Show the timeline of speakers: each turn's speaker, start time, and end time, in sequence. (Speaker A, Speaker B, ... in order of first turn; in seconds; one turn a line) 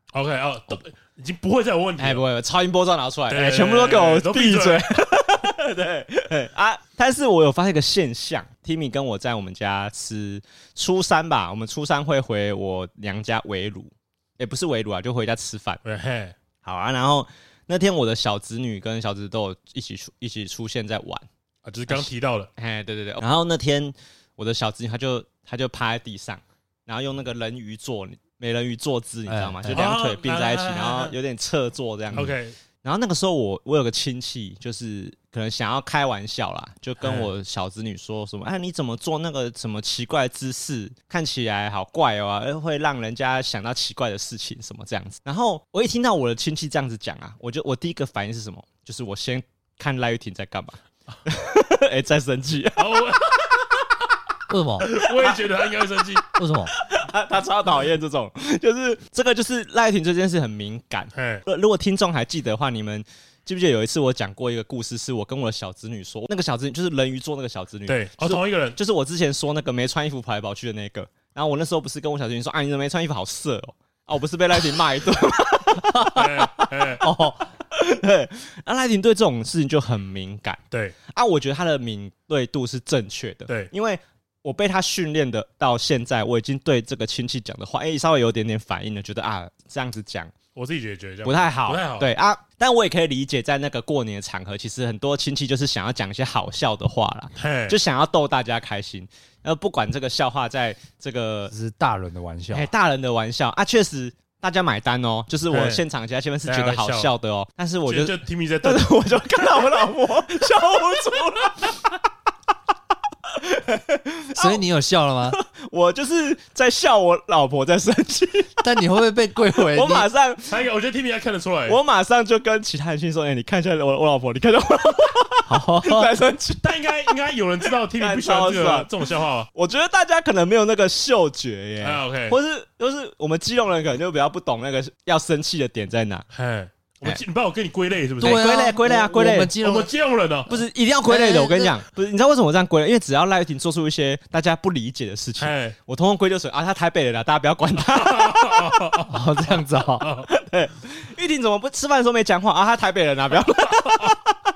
Speaker A: 0.1-2.2
Speaker B: 2.0-15.8
Speaker A: 3.3-4.9
Speaker A: 15.8-16.3
Speaker B: 16.6-21.2
Speaker A: 21.6-22.5
Speaker B: 21.9-53.1
Speaker C: 29.3-29.9
Speaker A: 29.7-31.1
Speaker A: 32.1-32.5
Speaker A: 37.0-37.3
Speaker A: 52.8-53.8
Speaker C: 54.5-54.9
Speaker A: 54.8-56.2
Speaker B: 55.0-55.4
Speaker C: 56.4-56.7
Speaker B: 56.8-76.7
Speaker A: 61.1-61.4
Speaker A: 67.9-68.8
Speaker A: 76.1-77.0
Speaker C: 77.0-77.5
Speaker B: 77.6-90.3
Speaker A: 90.5-92.1
Speaker B: 91.2-101.5
Speaker A: 97.3-97.8
Speaker C: 101.5-102.7
Speaker B: 102.5-111.8
Speaker A: 105.5-105.8
Speaker A: 106.4-107.1
Speaker A: 107.8-109.7
Speaker B: 113.3-114.6
Speaker C: 114.3-115.4
Speaker B: 115.3-118.5
Speaker C: 118.6-120.1
Speaker B: 119.6-120.6
Speaker A: 120.5-121.8
Speaker B: 121.7-127.1
Speaker C: 125.5-126.1
Speaker A: 126.6-129.5
Speaker B: 127.9-128.9
Speaker B: 129.5-136.2
Speaker A: 131.8-132.4
Speaker A: 136.3-138.5
Speaker B: 138.2-139.5
Speaker C: 138.2-139.9
Speaker A: 139.6-140.5
Speaker B: 140.5-148.8
Speaker C: 141.1-141.8
Speaker A: 145.4-145.8
Speaker A: 147.8-150.3
Speaker C: 149.1-150.1
Speaker B: 150.3-154.3
Speaker A: 153.7-154.1